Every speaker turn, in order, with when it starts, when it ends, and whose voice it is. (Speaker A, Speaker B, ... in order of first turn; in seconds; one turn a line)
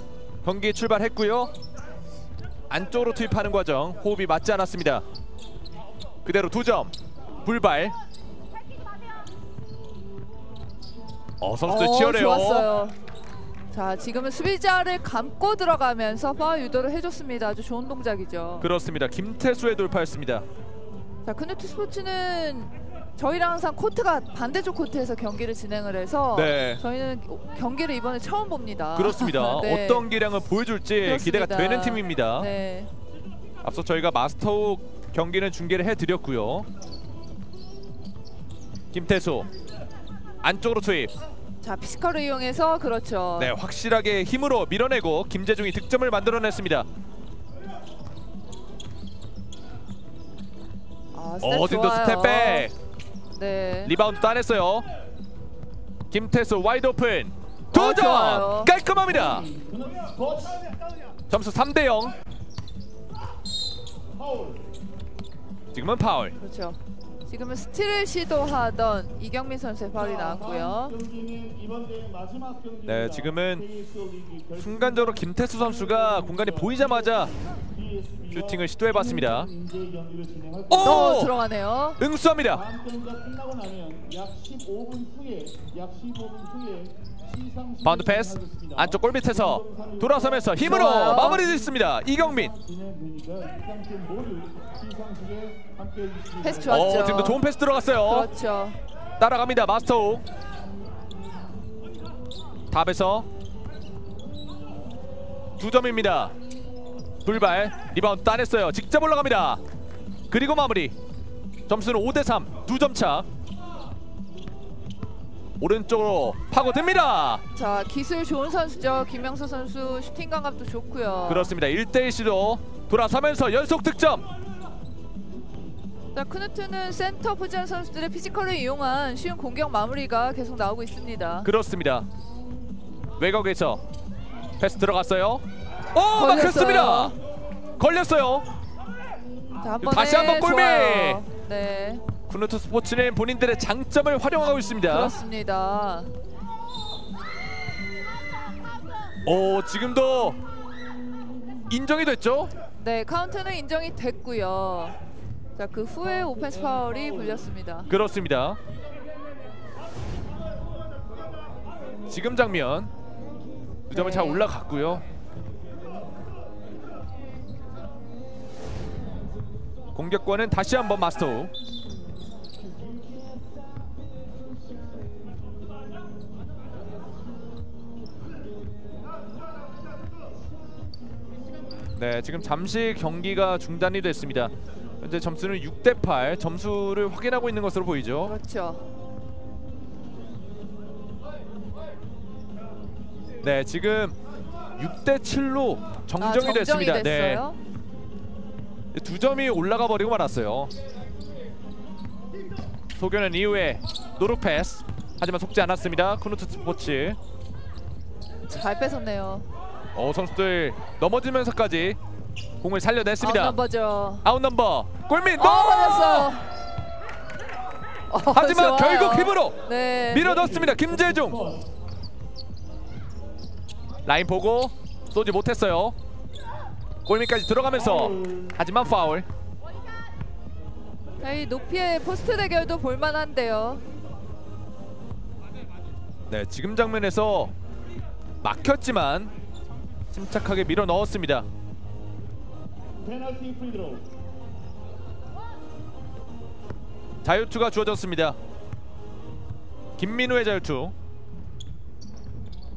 Speaker A: 0.4-1.5
Speaker A: 2.7-5.0
Speaker A: 6.2-7.9
Speaker A: 11.4-12.7
Speaker B: 11.7-13.0
Speaker B: 13.7-18.7
Speaker A: 18.6-20.4
Speaker B: 21.2-30.1
Speaker A: 26.3-26.8
Speaker A: 28.9-32.5
Speaker B: 31.0-32.9
Speaker A: 33.6-36.7
Speaker A: 38.9-39.5
Speaker A: 40.4-41.1
Speaker B: 41.6-43.5
Speaker A: 43.4-46.9
Speaker B: 51.1-52.7
Speaker A: 51.4-52.7
Speaker B: 53.3-53.9
Speaker A: 53.8-54.9
Speaker A: 56.1-59.5
Speaker B: 57.7-58.7
Speaker C: 59.1-60.7
Speaker A: 61.3-62.1
Speaker C: 64.1-64.7
Speaker A: 65.7-66.3
Speaker B: 66.4-71.0
Speaker C: 70.0-81.1
Speaker A: 72.8-73.7
Speaker A: 74.5-77.3
Speaker A: 78.3-79.5
Speaker A: 80.7-81.3
Speaker B: 80.8-82.0
Speaker A: 82.0-82.6
Speaker C: 82.5-97.0
Speaker A: 87.8-92.5
Speaker B: 90.6-91.5
Speaker B: 96.4-97.4
Speaker A: 96.7-98.3
Speaker B: 98.0-98.8
Speaker A: 99.2-100.2
Speaker A: 102.7-103.3
Speaker A: 105.6-106.3
Speaker A: 107.2-109.6
Speaker A: 110.3-111.0
Speaker A: 111.7-113.3
Speaker A: 115.6-117.4
Speaker B: 117.5-121.5
Speaker A: 121.3-124.2
Speaker B: 126.1-131.5
Speaker A: 131.4-132.1
Speaker A: 133.2-133.8
Speaker A: 134.6-137.1
Speaker B: 136.1-137.2
Speaker A: 137.8-138.5
Speaker B: 139.6-142.0
Speaker A: 139.8-141.2
Speaker A: 142.3-145.2
Speaker B: 144.8-146.1
Speaker A: 149.2-150.4
Speaker A: 151.7-152.5
Speaker B: 152.8-155.0
Speaker B: 155.6-157.9
Speaker C: 156.3-157.3
Speaker A: 157.9-158.6
Speaker A: 162.1-162.9
Speaker B: 163.9-164.5
Speaker A: 163.9-165.0
Speaker A: 169.9-171.5
Speaker A: 182.0-188.3
Speaker B: 188.2-188.8
Speaker A: 193.4-194.2
Speaker A: 194.8-197.4
Speaker B: 196.2-197.6
Speaker A: 198.9-200.7
Speaker A: 202.9-207.2
Speaker B: 208.5-209.5
Speaker A: 209.9-212.0
Speaker A: 212.6-213.6
Speaker B: 213.2-214.2
Speaker A: 214.2-216.3
Speaker B: 215.4-216.4
Speaker B: 218.1-220.3
Speaker A: 218.3-221.4
Speaker C: 220.2-221.6
Speaker A: 224.0-225.9
Speaker A: 227.1-229.3
Speaker C: 227.8-228.6
Speaker B: 231.2-233.8
Speaker A: 236.3-237.5
Speaker A: 238.4-239.3
Speaker A: 240.1-241.5
Speaker C: 243.0-244.0
Speaker A: 247.2-248.4
Speaker A: 250.0-250.9